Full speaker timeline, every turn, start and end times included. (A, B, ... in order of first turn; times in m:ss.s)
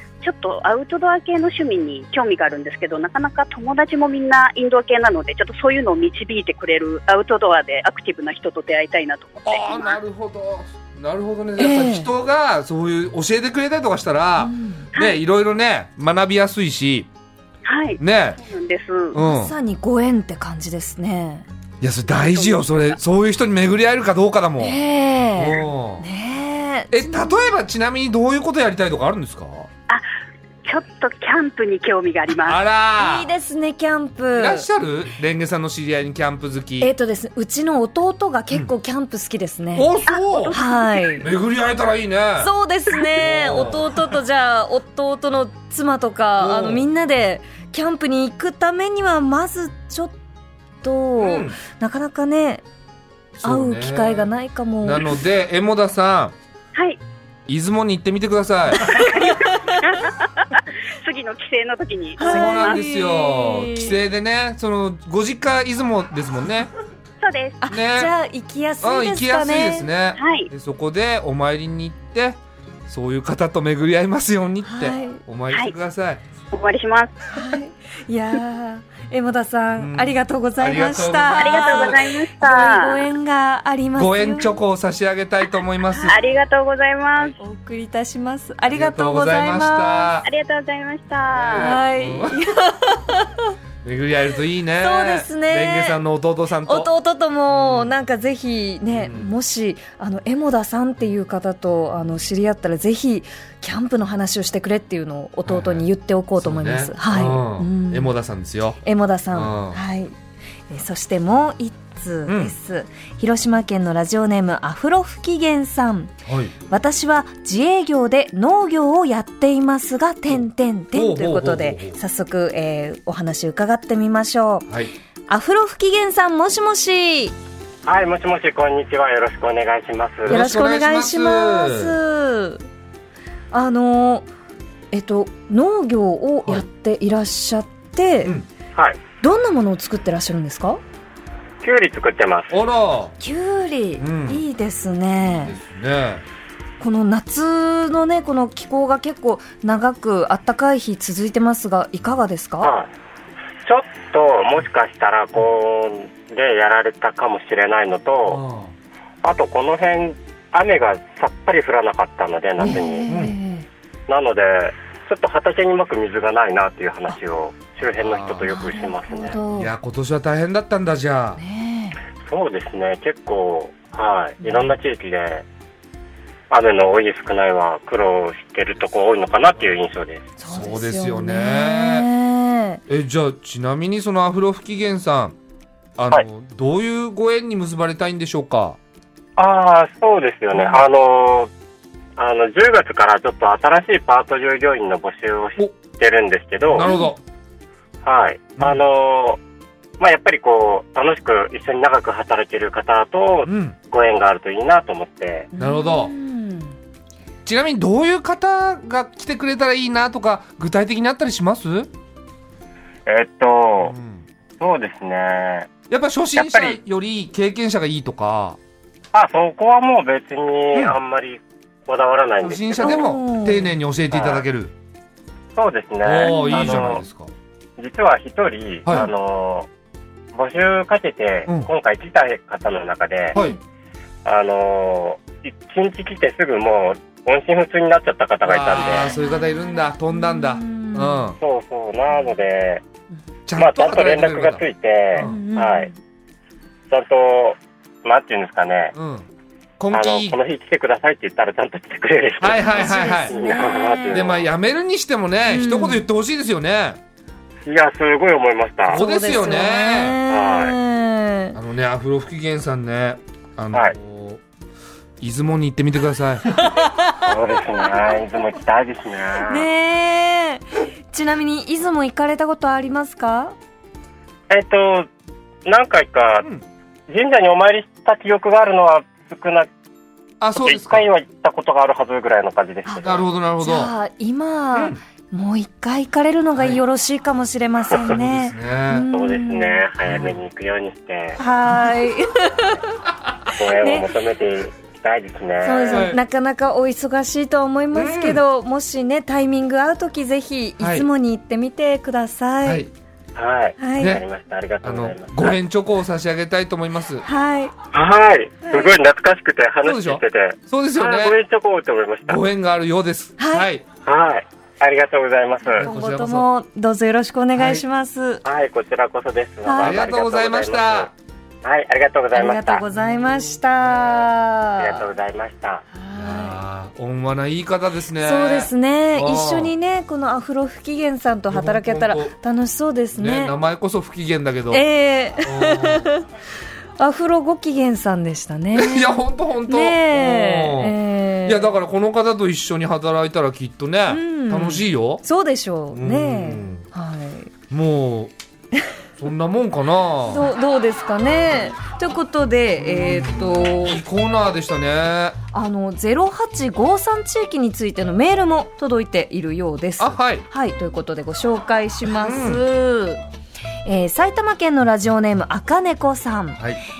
0:00.2-0:10.0 A
0:09.4-0:17.1 B
0:11.6-0:12.1 C
0:14.4-0:14.9 C
0:17.6-0:19.2 A
0:18.0-0:18.4 B
0:19.1-0:19.5 B
0:19.1-0:21.5 C
0:21.8-0:24.8 B
0:22.1-0:22.9 A
0:24.6-0:27.5 C
0:25.4-0:26.1 B
0:26.9-0:29.7 B
0:30.6-0:32.6 A
0:32.4-0:33.3 B
0:33.0-0:34.7 C
0:34.4-0:36.9 B
0:36.8-0:39.9 C
0:39.8-0:40.6 B
0:40.1-0:41.2 A
0:40.5-0:41.3 C
0:41.2-0:42.5 B
0:42.4-0:50.2 C
0:43.1-0:44.0 B
0:46.4-0:46.9 B
0:50.8-0:52.6 C
0:51.2-0:51.6 B
0:53.4-0:54.3 B
0:53.4-0:55.2 C
0:54.8-0:56.4 B
0:56.8-0:57.0 A
0:57.5-0:59.1 B
0:58.8-0:59.8 C
0:58.9-1:02.8 A
1:02.2-1:04.0 C
1:02.2-1:06.7 B
1:07.2-1:07.6 A
1:07.6-1:09.9 C
1:07.7-1:08.1 B
1:08.8-1:16.2 B
1:10.2-1:10.5 A
1:14.6-1:15.2 C
1:16.5-1:17.4 A
1:17.3-1:24.6 C
1:19.8-1:22.2 B
1:21.3-1:23.1 A
1:24.0-1:26.2 B
1:25.9-1:26.1 C
1:26.1-1:27.4 A
1:27.4-1:30.1 C
1:28.7-1:30.3 B
1:30.2-1:31.8 A
1:31.3-1:32.4 B
1:31.5-1:33.5 C
1:33.8-1:36.9 B
1:34.8-1:36.0 C
1:36.6-1:48.1 C
1:37.5-1:37.9 B
1:38.9-1:39.3 B
1:45.5-1:45.9 B
1:46.4-1:48.8 B
1:48.8-1:50.1 C
1:49.3-1:49.8 B
1:50.7-1:56.2 C
1:52.3-1:52.6 B
1:56.3-1:56.5 B
1:56.7-2:04.7 C
2:00.9-2:02.0 B
2:04.7-2:04.9 B
2:05.3-2:07.4 C
2:07.8-2:10.4 D
2:10.2-2:12.0 B
2:10.3-2:12.6 C
2:13.5-2:14.3 C
2:14.9-2:18.3 C
2:19.2-2:20.8 C
2:21.6-2:22.5 D
2:22.5-2:23.2 B
2:23.2-2:25.6 C
2:24.0-2:24.4 B
2:25.2-2:26.2 B
2:26.8-2:32.7 C
2:32.6-2:32.9 D
2:33.6-2:38.4 D
2:38.3-2:38.7 B
2:39.2-2:43.1 D
2:42.6-2:43.7 C
2:42.7-2:43.4 B
2:44.1-2:49.4 D
2:48.0-2:48.5 B
2:48.5-2:49.7 C
2:49.5-2:51.4 B
2:51.4-2:52.0 C
2:52.3-2:55.4 D
2:54.4-2:54.7 C
2:56.5-3:00.3 D
3:00.4-3:02.8 C
3:00.4-3:02.1 B
3:02.9-3:05.4 B
3:06.0-3:08.8 B
3:09.4-3:11.5 D
3:12.2-3:16.9 D
3:16.6-3:17.2 B
3:16.8-3:17.2 C
3:18.0-3:19.4 D
3:20.0-3:25.5 D
3:23.4-3:23.8 B
3:25.5-3:26.8 C
3:25.6-3:26.1 B
3:27.4-3:31.9 B
3:33.1-3:33.9 D
3:33.8-3:34.2 B
3:34.6-3:35.7 D
3:35.9-3:38.6 B
3:36.4-3:36.8 D
3:39.1-3:43.1 D
3:42.4-3:44.7 B
3:42.8-3:43.7 C
3:44.1-3:44.4 D
3:45.6-3:47.0 D
3:46.0-3:47.3 B
3:46.2-3:47.0 C
3:47.8-3:49.7 D
3:48.9-3:49.1 B
3:50.3-3:53.4 D
3:53.3-3:53.6 C
3:54.2-3:59.1 D
3:58.4-4:01.4 B
3:58.8-4:01.3 C
4:01.4-4:02.8 D
4:03.5-4:05.4 B
4:03.6-4:05.9 D
4:05.2-4:06.0 C
4:06.9-4:08.9 D
4:08.9-4:09.3 B
4:09.8-4:10.4 B
4:09.9-4:14.5 D
4:12.4-4:13.4 B
4:12.6-4:14.3 C
4:14.1-4:17.0 B
4:15.5-4:16.0 C
4:17.6-4:19.0 D
4:18.9-4:20.2 B
4:18.9-4:21.6 C
4:20.3-4:20.8 D
4:21.6-4:24.4 B
4:25.2-4:26.5 B
4:26.6-4:27.3 C
4:27.2-4:29.7 D
4:29.5-4:33.6 C
4:34.5-4:35.1 D
4:35.6-4:36.5 D
4:37.1-4:39.7 D
4:40.4-4:41.1 B
4:40.6-4:43.3 D
4:43.0-4:43.9 B
4:43.6-4:49.9 C
4:44.7-4:45.0 B
4:48.0-4:49.1 B
4:49.1-4:51.4 D
4:50.1-4:50.4 B
4:51.4-4:52.9 C
4:53.5-4:56.1 D
4:53.7-4:54.1 C
4:55.6-5:02.8 C
4:55.9-4:56.2 B
4:57.9-4:58.4 B
5:00.8-5:01.1 B
5:02.6-5:02.9 B
5:03.4-5:05.6 D
5:03.8-5:04.2 C
5:04.8-5:07.3 B
5:07.2-5:07.7 C
5:07.9-5:12.4 D
5:08.7-5:09.0 C
5:09.8-5:11.4 B
5:12.3-5:13.8 B
5:13.4-5:13.7 C
5:14.0-5:15.9 D
5:15.7-5:18.4 C
5:15.8-5:16.5 B
5:17.6-5:17.8 B
5:18.4-5:21.1 D
5:19.6-5:20.0 C
5:19.8-5:21.1 B
5:21.6-5:22.8 D
5:22.3-5:25.1 C
5:24.8-5:25.8 D
5:25.9-5:26.6 C
5:26.2-5:29.7 B
5:28.2-5:33.5 C
5:31.5-5:32.4 B
5:33.2-5:34.8 B
5:34.7-5:36.3 C
5:35.4-5:36.1 B
5:37.0-5:41.7 C
5:38.7-5:45.2 B
5:44.1-5:47.5 C
5:45.9-5:46.8 B
5:47.7-5:48.3 B
5:49.2-5:50.5 B
5:50.3-5:54.0 C
5:52.8-5:55.4 B
5:55.5-6:03.2 C
6:00.0-6:00.4 B
6:02.1-6:02.6 B
6:03.8-6:06.6 C